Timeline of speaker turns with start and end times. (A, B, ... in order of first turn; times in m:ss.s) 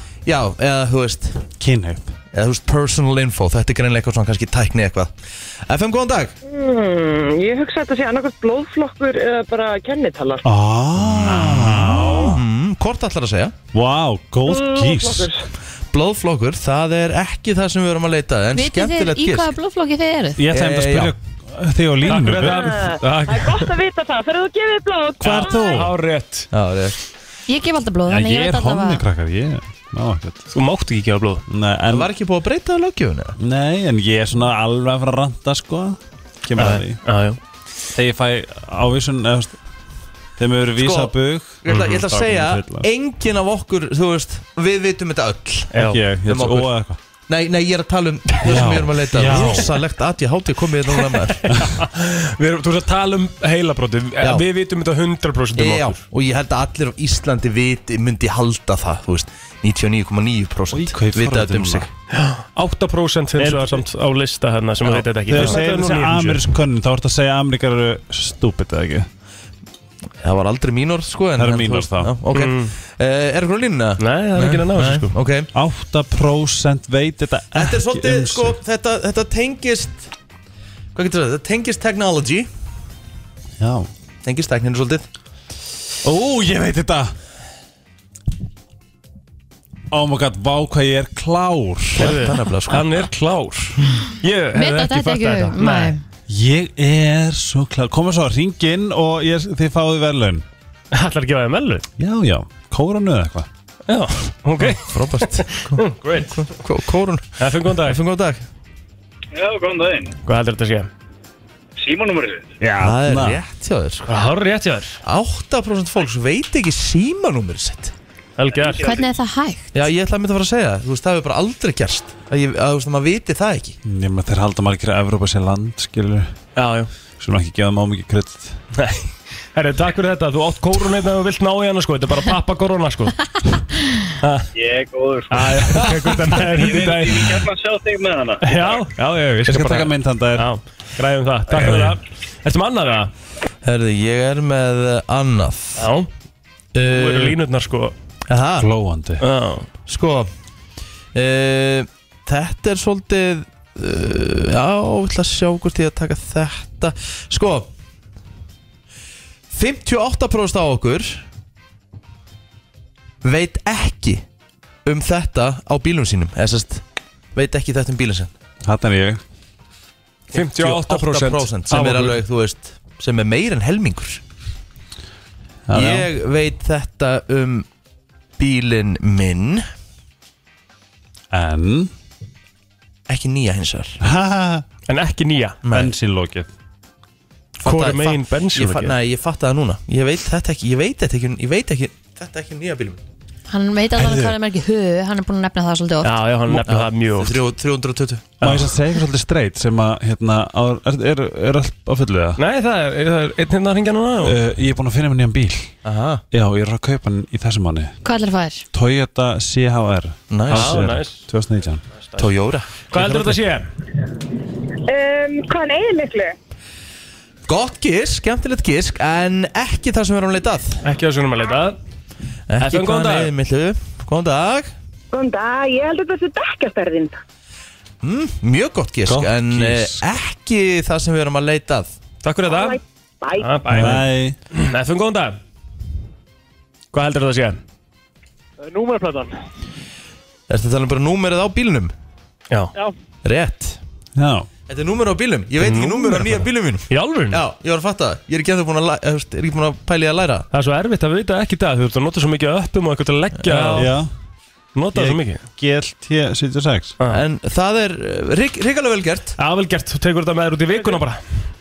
0:00.3-0:01.4 A
0:01.6-0:02.2 B
0:02.3-0:05.1 A
0:05.7-0:06.3 A
0:06.4-0:10.4 C
0:10.4-0:12.4 B
0:11.0-0:13.6 A
0:13.7-0:15.3 B
0:14.4-0:15.4 C
0:15.9-0:19.5 A
0:18.5-0:20.4 D
0:20.4-0:22.8 B
0:20.5-0:21.1 A
0:22.0-0:23.7 E
0:22.2-0:25.8 C
0:25.2-0:25.9 B
0:25.2-0:26.5 E
0:26.5-0:27.0 A
0:27.5-0:29.0 D
0:28.1-0:30.4 B
0:30.5-0:31.4 E
0:31.5-0:32.1 B
0:31.9-0:33.4 A
0:33.4-0:37.0 B
0:36.6-0:37.4 E
0:38.0-0:39.6 B
0:40.4-0:42.8 B
0:40.8-0:46.7 A
0:41.7-0:42.0 E
0:45.7-0:46.0 E
0:45.8-0:47.0 B
0:47.3-0:51.5 A
0:48.4-0:49.8 B
0:51.8-0:56.0 E
0:55.6-1:01.9 A
1:00.7-1:01.9 B
1:02.1-1:06.4 E
1:03.4-1:03.8 B
1:05.2-1:09.1 B
1:05.3-1:05.6 A
1:10.2-1:15.5 A
1:11.4-1:12.1 B
1:12.3-1:12.7 E
1:14.0-1:15.1 E
1:15.6-1:18.6 B
1:17.6-1:20.1 A
1:21.0-1:22.5 A
1:23.6-1:23.9 B
1:24.2-1:25.1 A
1:26.0-1:27.1 B
1:29.9-1:32.2 B
1:32.0-1:32.9 A
1:32.0-1:36.0 E
1:34.6-1:36.0 D
1:36.3-1:40.4 B
1:40.9-1:41.9 E
1:42.0-1:43.5 B
1:43.9-1:46.4 E
1:44.6-1:48.4 A
1:47.4-1:48.0 E
1:49.4-1:50.2 F
1:50.2-1:50.9 E
1:51.8-1:52.6 F
1:52.6-1:53.4 B
1:52.8-1:54.1 A
1:54.1-1:55.0 E
1:55.0-1:57.9 A
1:58.4-1:59.0 E
1:58.5-1:59.0 F
1:58.8-1:59.7 D
1:59.7-2:03.8 A
2:03.8-2:06.3 B
2:06.6-2:06.9 E
2:07.2-2:08.6 B
2:08.8-2:13.3 E
2:14.2-2:14.5 E
2:14.6-2:18.9 F
2:15.3-2:17.4 E
2:18.4-2:23.1 E
2:19.5-2:20.5 B
2:21.6-2:21.9 B
2:23.6-2:25.9 A
2:25.8-2:26.1 E
2:26.7-2:27.4 A
2:26.8-2:28.0 E
2:28.3-2:28.7 A
2:28.6-2:29.2 B
2:29.2-2:29.7 E
2:29.9-2:30.3 A
2:31.2-2:37.7 A
2:39.5-2:41.2 A
2:43.2-2:44.2 A
2:44.8-2:46.8 A
2:47.4-2:48.3 A
2:48.6-2:49.2 B
2:50.3-2:54.2 A
2:50.3-2:52.2 E
2:55.7-2:56.1 B
2:55.7-2:57.7 A
2:58.4-2:59.6 A
3:01.3-3:01.9 B
3:03.1-3:04.0 A
3:04.0-3:04.6 B
3:04.9-3:05.6 E
3:05.6-3:05.9 A
3:05.7-3:06.5 B
3:07.6-3:13.0 A
3:07.6-3:09.0 E
3:13.5-3:16.1 D
3:14.0-3:14.4 B
3:16.0-3:17.4 E
3:16.5-3:16.7 B
3:16.7-3:18.4 A
3:18.4-3:18.7 E
3:18.4-3:22.4 B
3:22.4-3:24.4 E
3:24.2-3:25.7 B
3:25.8-3:26.2 A
3:26.3-3:27.9 B
3:28.0-3:28.6 D
3:28.7-3:31.8 B
3:30.3-3:30.8 A
3:30.5-3:31.2 E
3:32.2-3:33.1 A
3:32.9-3:33.7 E
3:33.0-3:33.3 B
3:34.9-3:36.4 C
3:37.5-3:40.8 A
3:40.8-3:41.8 E
3:42.5-3:44.7 A
3:42.6-3:43.3 E
3:45.1-3:47.2 C
3:48.0-3:51.9 A
3:49.1-3:50.0 B
3:52.2-3:52.8 E
3:52.5-3:53.8 C
3:53.4-3:55.4 E
3:53.7-3:54.4 B
3:56.9-3:57.6 E
4:00.5-4:01.9 A
4:03.2-4:03.8 A
4:04.2-4:04.5 B
4:04.7-4:10.5 A
4:05.6-4:07.4 E
4:10.5-4:13.9 E
4:13.4-4:13.9 A
4:13.8-4:14.1 B
4:14.8-4:15.4 E
4:15.0-4:16.9 B
4:17.1-4:19.4 A
4:19.4-4:21.2 E